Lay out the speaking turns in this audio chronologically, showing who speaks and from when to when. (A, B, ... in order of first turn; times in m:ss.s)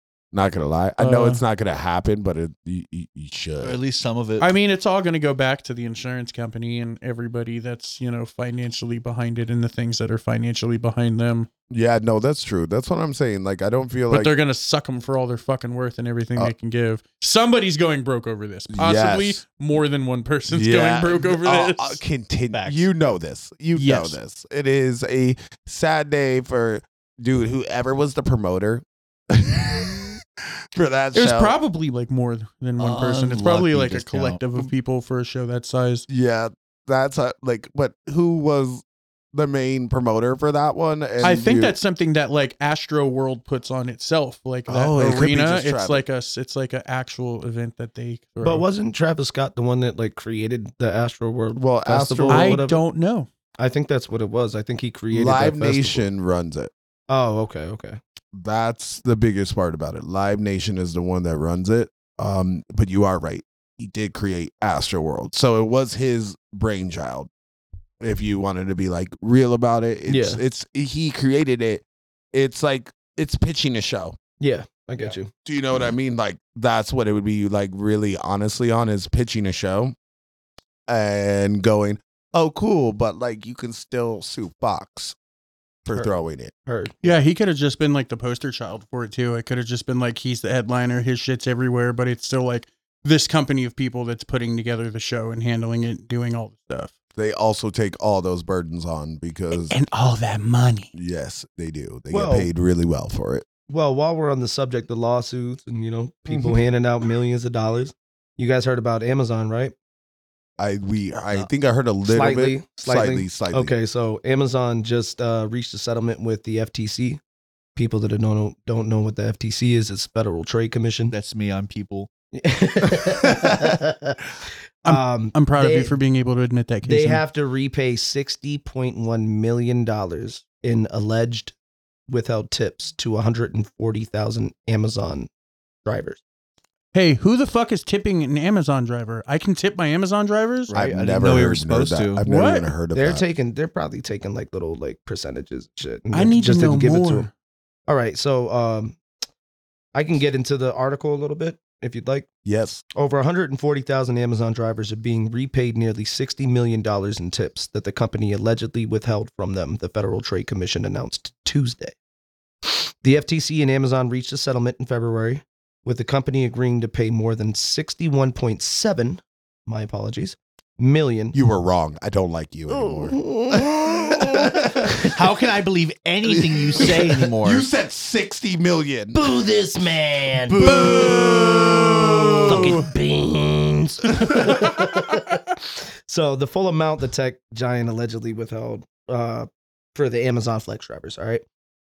0:00.3-0:03.8 A
0:01.0-0:01.4 B
0:03.6-0:04.5 C
0:04.4-0:11.5 B
0:11.7-0:14.3 A
0:14.1-0:22.0 B
0:18.7-0:19.4 A
0:20.5-0:30.2 A
0:22.5-0:22.9 C
0:23.7-0:24.2 B
0:30.7-0:31.5 A
0:31.1-0:36.0 B
0:32.8-0:34.4 C
0:36.1-0:41.7 A
0:41.2-0:48.6 B
0:44.7-0:46.0 A
0:48.4-0:52.8 D
0:51.6-0:52.6 A
0:52.3-0:53.3 B
0:53.6-0:56.0 D
0:55.1-0:56.7 A
0:57.1-0:58.0 D
0:58.3-1:07.3 A
1:08.0-1:14.2 A
1:10.1-1:10.4 D
1:14.4-1:15.3 D
1:15.4-1:19.9 A
1:20.9-1:25.2 A
1:25.8-1:26.5 A
1:26.6-1:27.0 D
1:27.0-1:36.9 B
1:37.2-1:39.8 A
1:39.5-1:40.9 B
1:40.9-1:43.4 A
1:42.1-1:42.5 D
1:43.7-1:49.7 D
1:46.3-1:46.6 A
1:50.6-1:53.7 A
1:52.0-1:57.2 D
1:57.8-2:01.1 D
2:01.1-2:02.1 C
2:02.3-2:04.2 D
2:03.0-2:03.7 A
2:04.8-2:06.0 D
2:04.8-2:07.2 B
2:06.8-2:11.5 D
2:12.1-2:15.3 D
2:15.8-2:16.2 D
2:16.9-2:20.7 B
2:20.7-2:22.2 C
2:20.7-2:23.2 A
2:22.3-2:22.7 B
2:22.9-2:27.3 D
2:26.1-2:27.3 B
2:27.9-2:29.0 D
2:29.9-2:32.3 D
2:32.4-2:32.8 A
2:32.9-2:41.9 D
2:42.6-2:51.4 D
2:51.3-2:55.2 A
2:52.7-2:55.1 D
2:55.1-2:57.6 C
2:56.2-2:59.2 A
2:56.8-2:57.1 D
2:59.1-3:01.9 D
3:00.5-3:02.9 A
3:02.4-3:11.4 D
3:04.2-3:05.0 A